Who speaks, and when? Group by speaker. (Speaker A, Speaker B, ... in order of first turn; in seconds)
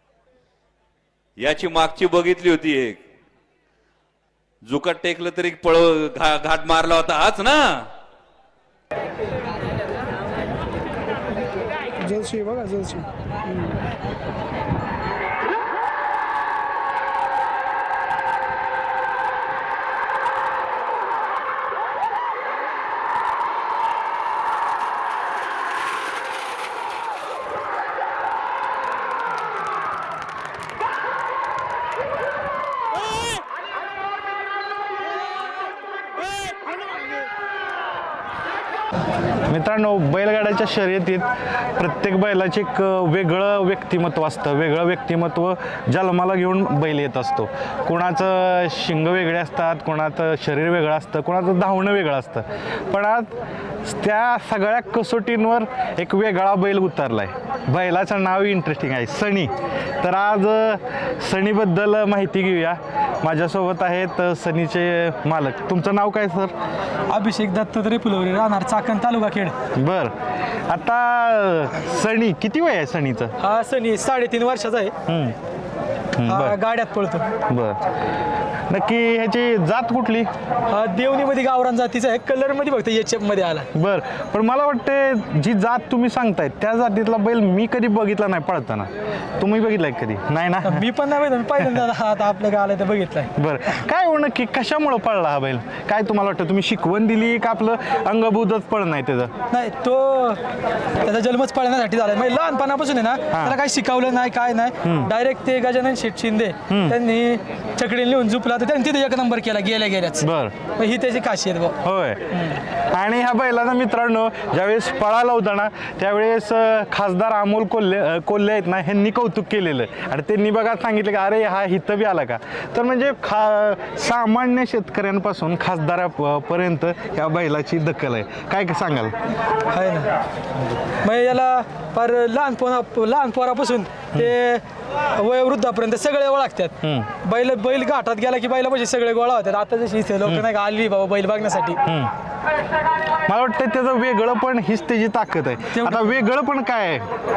Speaker A: 1.4-3.0, 4.6-7.9
Speaker B: 12.0-13.0, 67.1-69.5, 73.4-74.9, 76.2-77.3, 80.7-83.7, 90.6-93.3, 99.5-100.4, 101.0-111.8, 129.7-130.1, 131.0-141.8, 145.7-146.2
Speaker C: 39.5-66.5, 69.8-70.1, 70.7-73.3, 75.1-75.3, 76.1-76.6, 77.5-77.8, 78.7-80.3, 83.7-90.9, 93.3-99.3, 103.3-103.6, 104.8-105.1, 106.7-107.0, 110.2-110.5, 111.8-129.1, 136.8-137.1, 141.8-142.1, 143.3-147.1